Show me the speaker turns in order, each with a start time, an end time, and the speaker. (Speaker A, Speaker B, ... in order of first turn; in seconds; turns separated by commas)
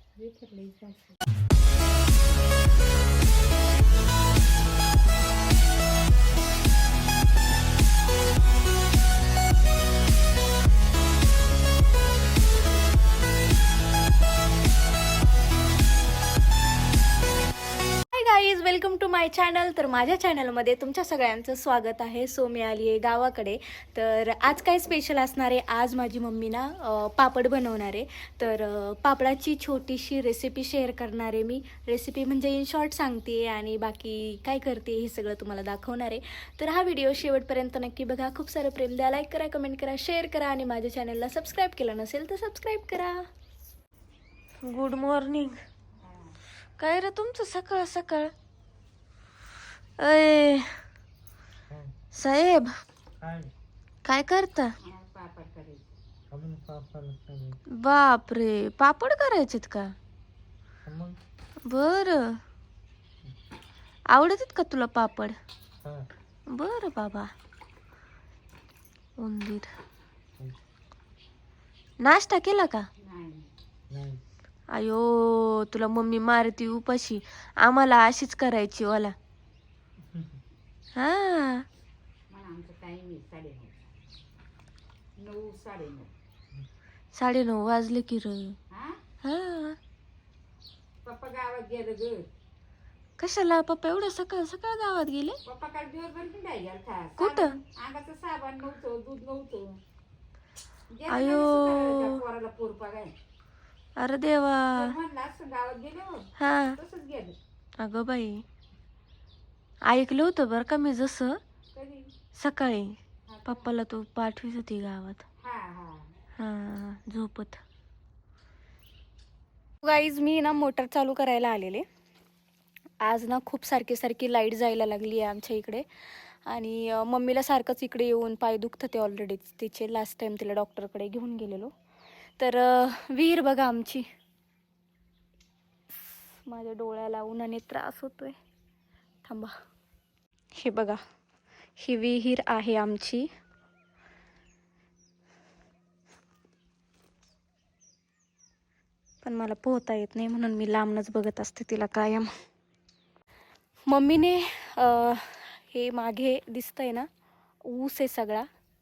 Speaker A: 0.2-1.1, Speaker B: 18.1-43.2, Speaker B: 44.6-45.6, Speaker A: 46.0-46.4, Speaker B: 46.8-48.3, Speaker B: 50.0-50.8, Speaker B: 52.1-52.7, Speaker C: 53.2-53.5, Speaker B: 54.0-54.7, Speaker A: 54.8-55.9, Speaker C: 56.3-57.6, Speaker B: 57.8-59.9, Speaker C: 60.8-61.2, Speaker B: 61.7-62.4, Speaker B: 64.1-65.3, Speaker C: 65.8-66.1, Speaker B: 66.5-67.3, Speaker B: 69.2-69.7, Speaker B: 72.0-72.8, Speaker A: 73.0-73.5, Speaker C: 73.9-74.2, Speaker B: 74.7-79.1, Speaker B: 81.0-81.6, Speaker A: 82.3-83.9, Speaker A: 85.2-86.1, Speaker B: 87.2-88.5, Speaker A: 88.7-89.0, Speaker B: 89.2-89.8, Speaker A: 91.0-92.3, Speaker B: 93.2-95.4, Speaker A: 95.5-99.8, Speaker B: 97.2-97.5, Speaker A: 100.9-103.1, Speaker B: 101.1-102.1, Speaker B: 104.0-104.9, Speaker A: 104.7-107.3, Speaker B: 106.4-106.8, Speaker B: 107.8-108.4, Speaker B: 109.8-111.4, Speaker A: 111.7-112.1, Speaker B: 112.4-113.0, Speaker A: 113.3-113.7, Speaker B: 113.5-115.2, Speaker A: 115.4-116.1, Speaker B: 116.4-117.6, Speaker B: 119.8-121.8, Speaker B: 123.0-131.7, Speaker B: 132.4-134.1, Speaker B: 136.4-138.3, Speaker B: 139.2-139.5, Speaker B: 140.6-141.0, Speaker B: 141.8-143.3, Speaker B: 149.2-152.3, Speaker B: 153.9-157.1, Speaker B: 157.6-158.5